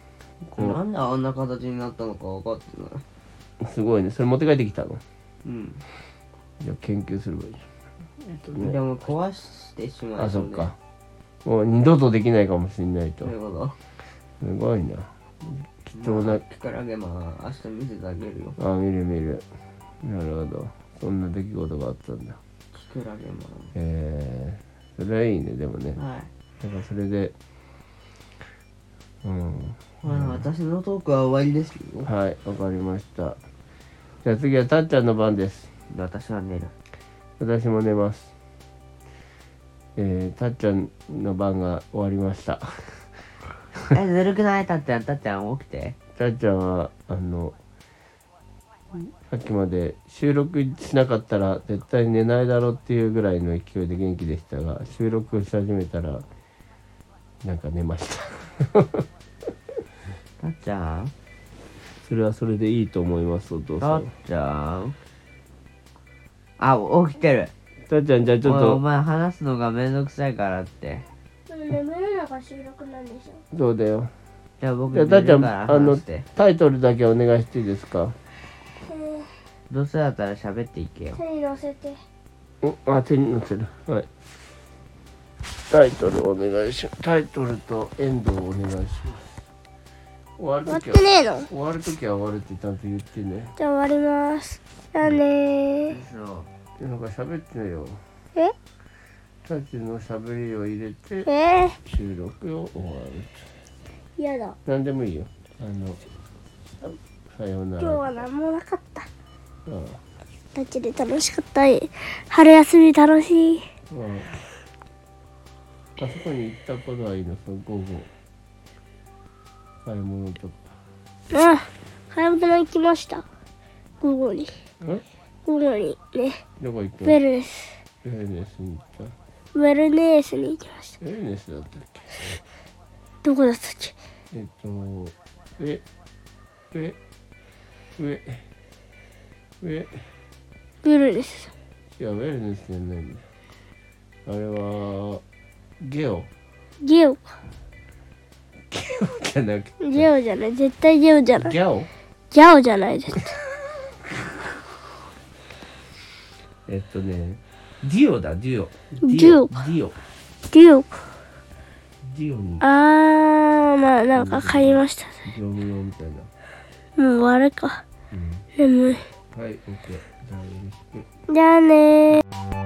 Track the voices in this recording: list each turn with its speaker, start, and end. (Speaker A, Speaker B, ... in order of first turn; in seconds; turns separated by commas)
Speaker A: 0.4-0.8, Speaker B: 0.6-3.0, Speaker A: 3.6-5.0, Speaker B: 5.4-5.8, Speaker A: 6.6-7.7, Speaker A: 8.2-8.8, Speaker B: 8.6-10.7, Speaker A: 10.2-10.8, Speaker A: 11.4-13.3, Speaker B: 13.2-13.8, Speaker A: 14.4-16.4, Speaker B: 15.9-18.6, Speaker A: 18.6-19.4, Speaker A: 20.0-22.4, Speaker B: 22.7-23.7, Speaker A: 23.8-26.0, Speaker B: 26.0-26.3, Speaker A: 26.6-27.3, Speaker A: 29.2-30.4, Speaker B: 30.0-32.1, Speaker A: 32.0-33.4, Speaker A: 34.2-35.7, Speaker B: 35.9-36.7, Speaker A: 37.4-38.3, Speaker A: 40.0-43.1, Speaker B: 43.9-46.0, Speaker A: 46.2-47.6, Speaker A: 49.3-56.2, Speaker A: 57.4-59.1, Speaker B: 60.4-61.1, Speaker A: 62.0-64.1, Speaker B: 63.8-65.0, Speaker B: 66.6-67.5, Speaker A: 67.9-68.8, Speaker B: 68.4-71.1, Speaker C: 71.5-73.4, Speaker A: 73.5-74.1, Speaker B: 74.6-76.3, Speaker A: 74.9-78.2, Speaker C: 78.8-79.3, Speaker B: 79.7-81.2, Speaker C: 81.2-82.0, Speaker A: 82.6-84.1, Speaker A: 85.7-89.4, Speaker A: 90.4-93.5, Speaker C: 90.7-91.5, Speaker C: 93.6-96.0, Speaker B: 95.9-96.5, Speaker A: 96.8-98.0, Speaker A: 99.5-101.3, Speaker C: 101.3-101.8, Speaker A: 101.8-103.5, Speaker C: 104.2-104.6, Speaker A: 104.7-106.0, Speaker A: 107.3-108.2, Speaker C: 107.8-109.1, Speaker A: 109.7-110.0, Speaker C: 110.5-113.7, Speaker A: 113.9-114.4, Speaker A: 116.0-118.1, Speaker A: 119.8-120.7, Speaker C: 121.3-123.2, Speaker C: 124.0-124.5, Speaker C: 125.5-126.4, Speaker A: 126.6-127.2, Speaker C: 127.0-127.8, Speaker A: 128.0-129.2, Speaker C: 129.6-131.0, Speaker A: 131.0-132.4, Speaker C: 133.2-133.9, Speaker A: 134.3-135.8, Speaker A: 136.7-137.0, Speaker A: 138.0-138.4, Speaker A: 139.6-140.1, Speaker C: 140.8-141.5, Speaker A: 141.9-143.3, Speaker A: 144.3-145.2, Speaker A: 145.8-146.3, Speaker C: 146.8-147.2, Speaker A: 148.7-150.1, Speaker C: 149.8-151.6, Speaker A: 151.4-151.9, Speaker C: 152.3-153.4, Speaker A: 156.7-160.0, Speaker C: 159.0-159.7, Speaker C: 160.5-161.0, Speaker A: 162.0-162.7, Speaker C: 162.6-165.3, Speaker A: 164.1-166.3, Speaker C: 167.0-167.8, Speaker A: 168.1-168.5, Speaker C: 168.6-169.0, Speaker A: 169.3-171.1, Speaker C: 171.3-172.2